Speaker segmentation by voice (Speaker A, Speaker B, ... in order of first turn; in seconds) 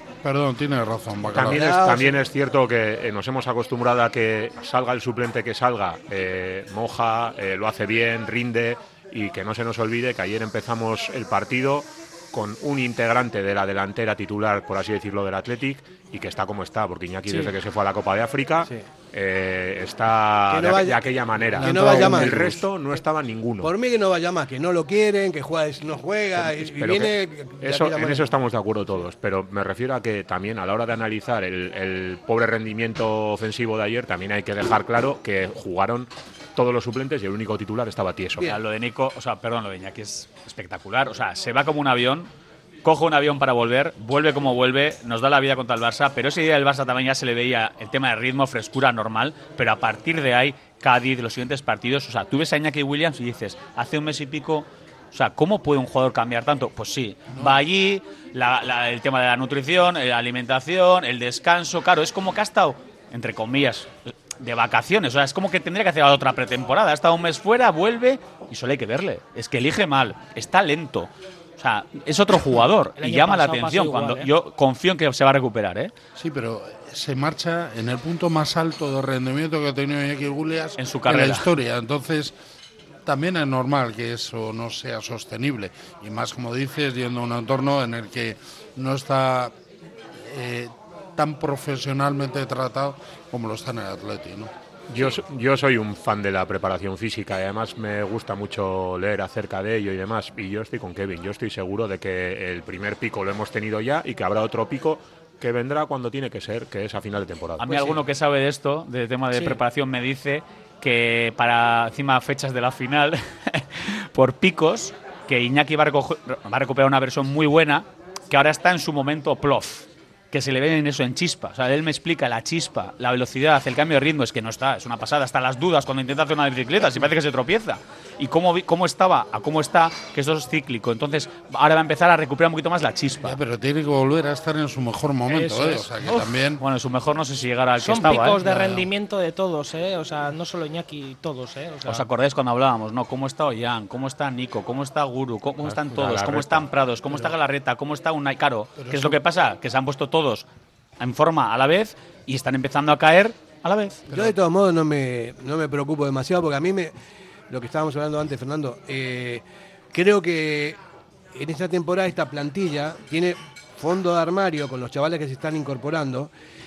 Speaker A: 0.2-1.8, 21.6-22.4, 57.3-57.6, 76.2-82.3, 83.0-89.5, 90.1-95.2, 133.1-136.6, 138.4-138.9, 148.8-149.2, 154.1-154.3
Speaker B: 1.3-23.7, 26.4-38.5, 94.9-107.9, 145.6-146.7
Speaker C: 1.5-2.2, 20.5-22.7, 23.6-28.3, 107.7-108.0, 154.1-156.9, 157.5-160.8, 161.3-166.3
Speaker D: 38.4-42.3, 42.8-75.9, 80.8-81.5, 107.6-133.4, 136.0-138.4, 141.8-150.4, 151.0-154.0
Speaker E: 73.0-74.3, 135.3-135.9, 137.8-142.1